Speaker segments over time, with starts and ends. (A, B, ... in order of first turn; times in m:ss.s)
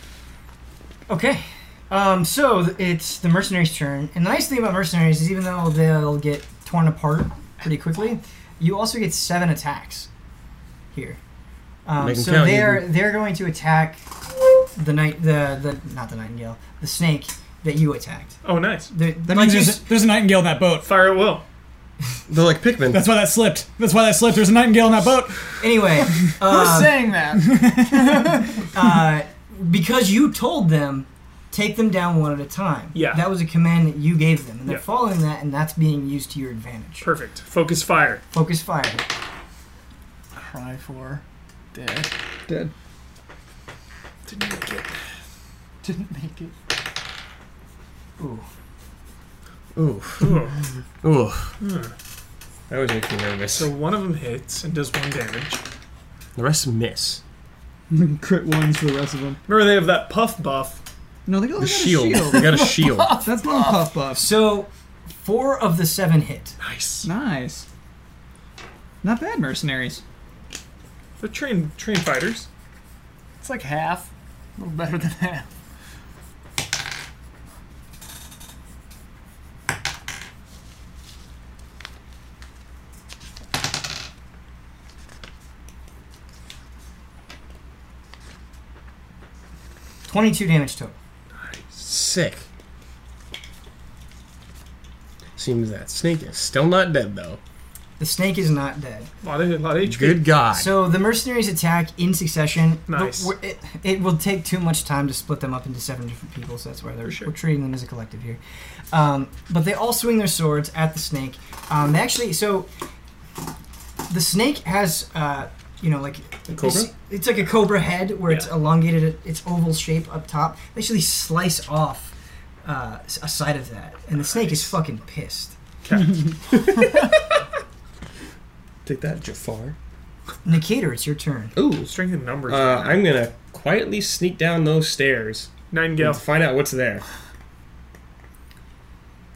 0:01.1-0:10.1 A
0:10.9-0:11.2 A
0:11.9-0:14.0 A
0:12.0-0:12.9 B
0:14.8-0:18.4 A
0:18.4-0:18.9 C
0:18.9-0:19.9 A
0:19.3-0:20.9 D
0:20.8-0:21.4 C
0:22.3-0:23.1 B
0:22.9-0:25.4 D
0:25.6-0:27.1 A
0:26.3-0:28.6 E
0:28.7-0:37.1 A
0:32.9-0:33.3 C
0:37.0-0:38.2 C
0:38.3-0:39.0 A
0:40.4-0:41.2 E
0:41.7-0:42.1 E
0:44.3-0:45.0 C
0:45.8-0:46.5 E
0:48.2-0:48.5 A
0:49.8-0:51.6 B
0:50.2-0:50.6 C
0:51.6-0:51.9 C
0:52.7-0:53.7 B
0:53.5-0:55.6 C
0:56.4-0:57.2 B
0:57.9-0:59.4 D
0:59.5-1:00.8 C
1:01.3-1:04.3 D
1:01.6-1:03.2 B
1:02.3-1:03.9 E
1:04.1-1:06.6 A
1:06.6-1:07.1 C
1:07.0-1:07.7 D
1:09.0-1:10.0 D
1:11.2-1:12.5 C
1:13.4-1:15.5 E
1:30.1-1:31.0 A
1:31.7-1:32.4 B
1:35.4-1:37.4 B
1:38.0-1:39.1 A
1:39.2-1:40.4 C
1:39.8-1:40.7 B
1:40.5-1:48.4 A
1:42.9-1:43.3 C
1:48.9-1:52.7 A
1:54.1-2:02.1 A
1:56.5-1:56.9 B
2:02.6-2:05.6 A
2:05.8-2:06.3 C
2:06.4-2:07.2 B
2:08.8-2:09.8 B
2:10.4-2:11.5 A
2:11.6-2:17.0 B
2:11.9-2:13.1 C
2:15.7-2:16.2 C